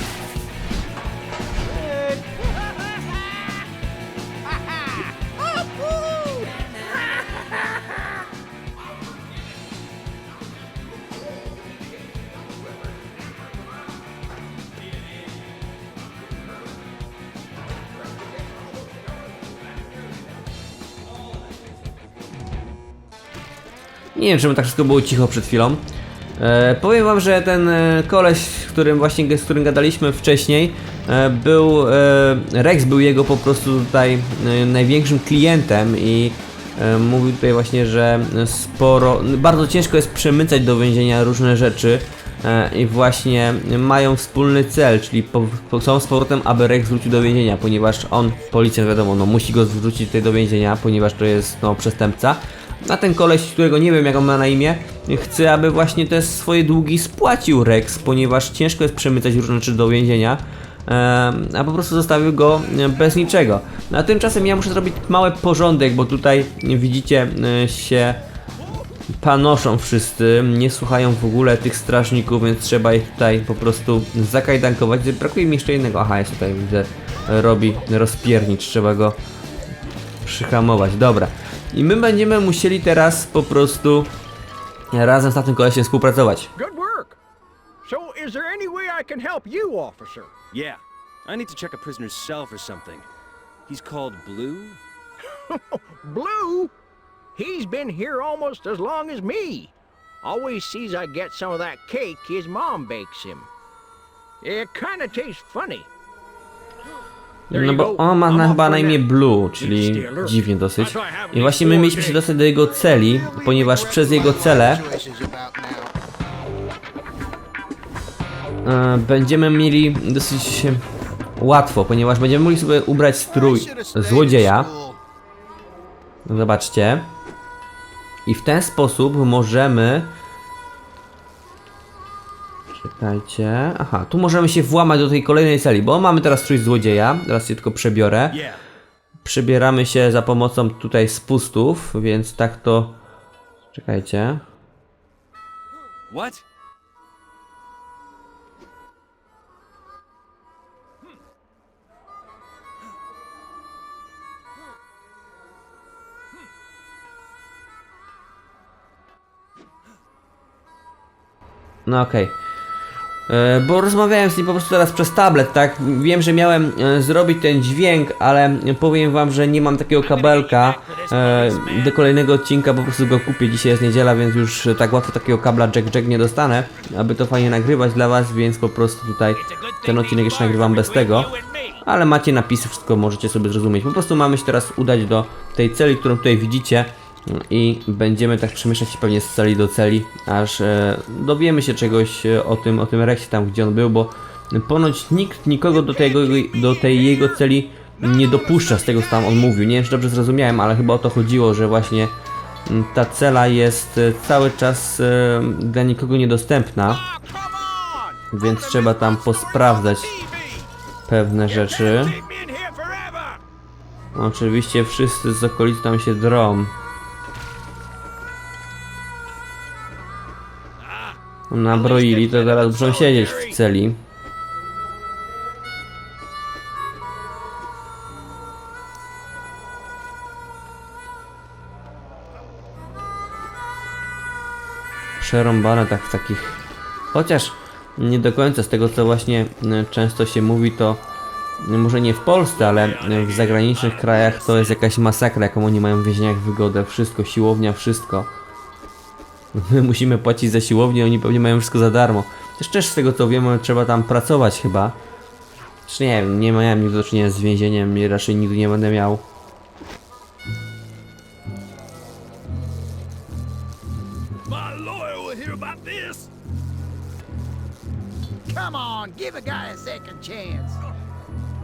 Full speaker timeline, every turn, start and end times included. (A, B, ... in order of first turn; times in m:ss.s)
0:06.1-0:06.4 A
0:24.1-0:25.8 B
0:26.4-1:08.2 B
1:09.2-1:19.2 B
1:20.2-1:24.1 B
1:24.9-1:26.5 B
1:26.6-1:27.2 A
1:27.8-1:30.3 A
1:30.5-1:33.0 C
1:33.7-1:34.8 C
1:35.3-1:36.7 A
1:37.3-1:43.5 A
1:44.4-1:45.9 A
1:47.5-1:49.0 A
1:47.5-1:54.9 B
1:49.6-1:52.2 A
1:53.2-1:55.9 A
1:58.6-2:00.8 B
2:01.4-2:04.7 B
2:03.3-2:05.0 A
2:06.2-2:07.1 B
2:08.2-2:10.1 B
2:12.8-2:18.4 B
2:18.3-2:18.6 C
2:19.2-2:23.0 B
2:23.7-2:24.4 B
2:26.1-2:26.4 C
2:41.8-2:42.4 B
2:43.3-3:22.1 B
2:50.0-2:51.9 A
2:59.4-3:01.8 A
3:18.2-3:19.0 A
3:22.6-3:27.0 B
3:26.9-3:30.7 A
3:28.3-3:30.1 B
3:31.1-3:32.2 B
3:31.4-3:33.4 A
3:34.1-3:36.7 B
3:40.8-3:41.2 A
3:41.5-3:44.0 B
3:41.7-3:43.6 A
3:55.2-3:56.6 B
3:57.1-4:01.0 B
4:01.6-4:08.3 B
4:09.5-4:15.0 B
4:15.9-4:19.2 B
4:24.5-4:26.3 A
4:28.5-4:30.8 A